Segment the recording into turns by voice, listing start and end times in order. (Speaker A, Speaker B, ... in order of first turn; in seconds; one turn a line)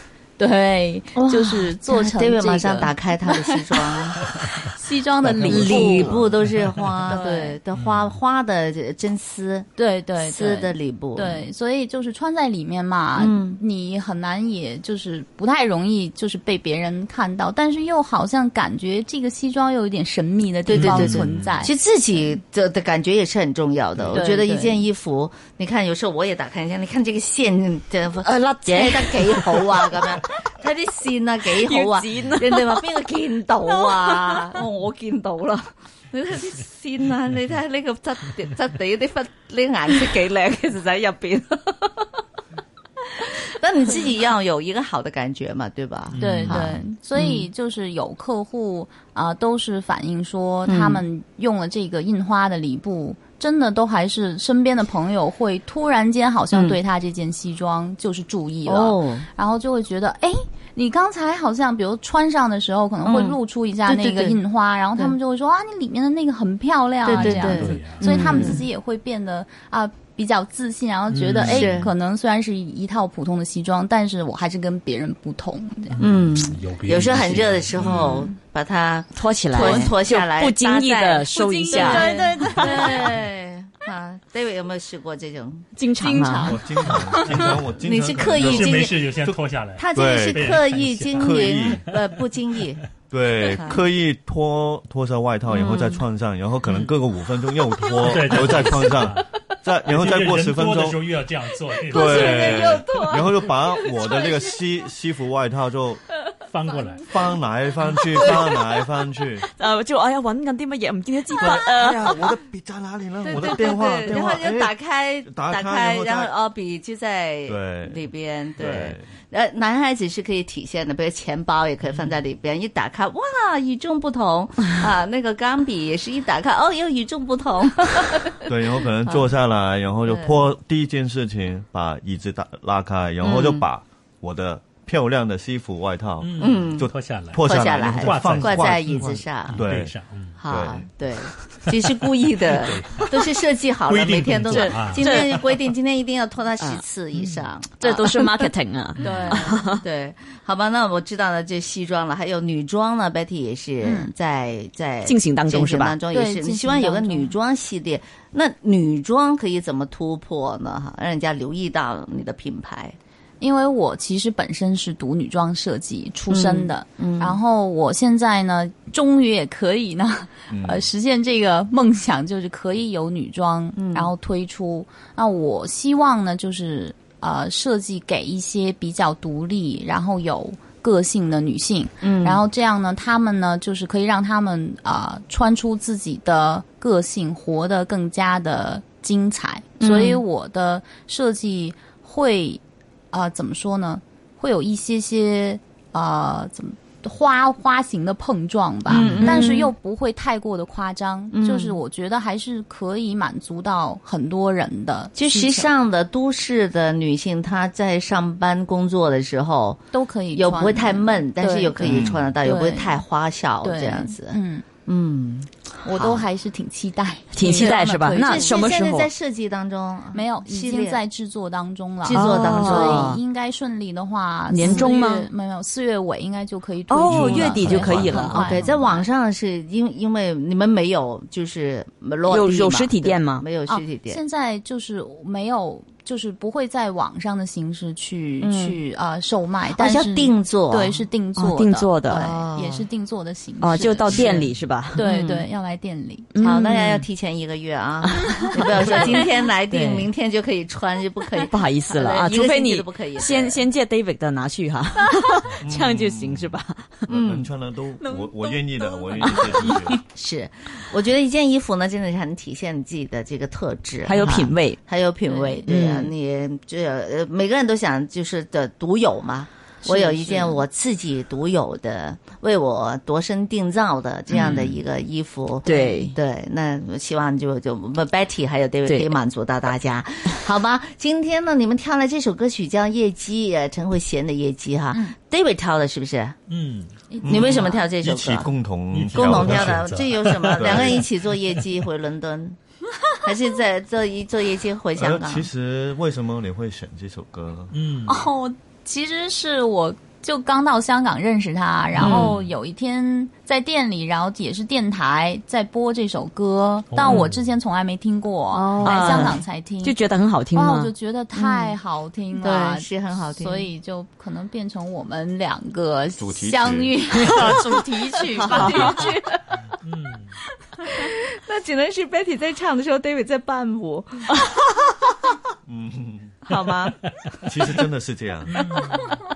Speaker A: 0.4-6.2
Speaker B: 1.1-4.2
Speaker B: 5.3-9.7
Speaker A: 7.1-7.6
Speaker C: 7.8-8.1
Speaker A: 9.8-21.7
Speaker B: 10.2-11.4
Speaker B: 13.2-13.6
Speaker B: 20.7-42.0
Speaker C: 20.8-21.5
Speaker A: 24.1-24.8
Speaker D: 28.2-29.9
Speaker D: 31.5-32.9
Speaker B: 43.1-47.5
Speaker C: 46.1-46.8
Speaker A: 46.1-76.0
Speaker B: 50.6-51.0
Speaker B: 56.5-56.8
Speaker B: 58.6-59.3
Speaker B: 63.0-64.4
Speaker B: 67.0-68.6
Speaker C: 67.1-68.5
Speaker C: 71.1-71.9
Speaker B: 71.4-71.9
Speaker C: 75.9-78.3
Speaker B: 76.0-85.7
Speaker E: 77.8-78.1
Speaker D: 79.2-83.2
Speaker A: 79.6-79.9
Speaker A: 81.3-83.0
Speaker D: 85.8-86.6
Speaker A: 86.0-87.5
Speaker E: 86.5-89.4
Speaker C: 86.9-87.5
Speaker B: 87.8-89.1
Speaker C: 88.3-92.0
Speaker B: 89.8-92.8
Speaker E: 89.9-90.6
Speaker E: 91.1-91.8
Speaker E: 93.1-101.0
Speaker B: 93.4-93.8
Speaker B: 95.5-96.0
Speaker C: 98.0-99.2
Speaker C: 99.8-102.8
Speaker B: 101.8-104.5
Speaker E: 101.9-106.0
Speaker C: 106.5-107.1
Speaker E: 107.0-109.5
Speaker B: 108.2-108.6
Speaker D: 109.5-112.3
Speaker E: 111.4-114.7
Speaker B: 113.2-128.4
Speaker E: 115.2-116.3
Speaker E: 117.5-118.0
Speaker E: 118.6-119.1
Speaker E: 128.4-139.9
Speaker B: 130.1-130.3
Speaker B: 133.2-133.6
Speaker C: 136.2-140.4
Speaker B: 136.4-136.9
Speaker B: 137.4-139.6
Speaker B: 140.4-148.5
Speaker E: 140.4-140.9
Speaker C: 142.4-145.5
Speaker D: 144.5-145.6
Speaker C: 147.1-147.5
Speaker D: 147.8-149.8
Speaker A: 149.0-149.7
Speaker B: 149.3-162.9
Speaker A: 153.8-154.1
Speaker D: 155.0-155.9
Speaker A: 156.1-157.3
Speaker A: 163.4-205.7
Speaker B: 166.3-167.4
Speaker E: 170.5-170.8
Speaker B: 173.8-174.1
Speaker B: 182.0-182.4
Speaker B: 189.8-190.2
Speaker B: 198.9-199.7
Speaker B: 201.3-201.8
Speaker B: 205.2-209.8
Speaker A: 209.9-213.0
Speaker B: 210.3-216.2
Speaker E: 211.8-212.3
Speaker A: 213.6-214.7
Speaker A: 215.8-218.6
Speaker D: 217.3-219.1
Speaker B: 217.4-217.7
Speaker B: 218.2-221.0
Speaker A: 220.1-229.1
Speaker B: 222.0-223.2
Speaker D: 222.1-223.2
Speaker D: 224.5-225.3
Speaker B: 224.6-224.9
Speaker D: 226.9-228.5
Speaker E: 227.1-228.4
Speaker B: 228.4-234.2
Speaker D: 232.3-233.4
Speaker A: 233.7-246.4
Speaker B: 238.4-238.8
Speaker B: 239.7-241.0
Speaker D: 241.4-242.3
Speaker B: 242.1-242.8
Speaker D: 243.6-245.0
Speaker B: 245.0-245.4
Speaker D: 246.3-247.1
Speaker B: 246.4-253.6
Speaker D: 248.2-249.1
Speaker A: 248.4-249.1
Speaker D: 249.7-250.1
Speaker D: 251.5-257.1
Speaker E: 255.6-256.6
Speaker B: 257.1-257.5
Speaker E: 257.1-260.0
Speaker A: 258.0-259.9
Speaker B: 260.1-286.4
Speaker D: 264.0-264.8
Speaker A: 265.3-265.6
Speaker D: 265.7-266.1
Speaker A: 269.8-270.6
Speaker D: 274.3-274.7
Speaker D: 275.6-276.1
Speaker D: 278.9-279.1
Speaker C: 286.5-287.1
Speaker A: 287.1-287.9
Speaker B: 287.2-288.5
Speaker E: 287.2-289.9
Speaker C: 288.9-291.3
Speaker B: 289.1-292.6
Speaker E: 290.6-291.1
Speaker B: 293.2-295.5
Speaker E: 294.9-297.7
Speaker C: 297.7-298.2
Speaker A: 298.1-310.0
Speaker C: 301.9-302.4
Speaker B: 302.0-302.3
Speaker C: 306.9-307.5
Speaker B: 308.5-309.4
Speaker D: 308.8-310.9
Speaker A: 310.5-319.1
Speaker B: 311.3-311.8
Speaker B: 312.4-313.7
Speaker E: 316.2-316.9
Speaker C: 317.3-317.6
Speaker B: 318.3-319.4
Speaker D: 318.4-318.9
Speaker C: 318.7-319.1
Speaker C: 319.8-320.3
Speaker B: 320.9-324.3
Speaker E: 325.6-326.4
Speaker B: 326.5-327.0
Speaker E: 327.4-328.8
Speaker C: 328.5-329.2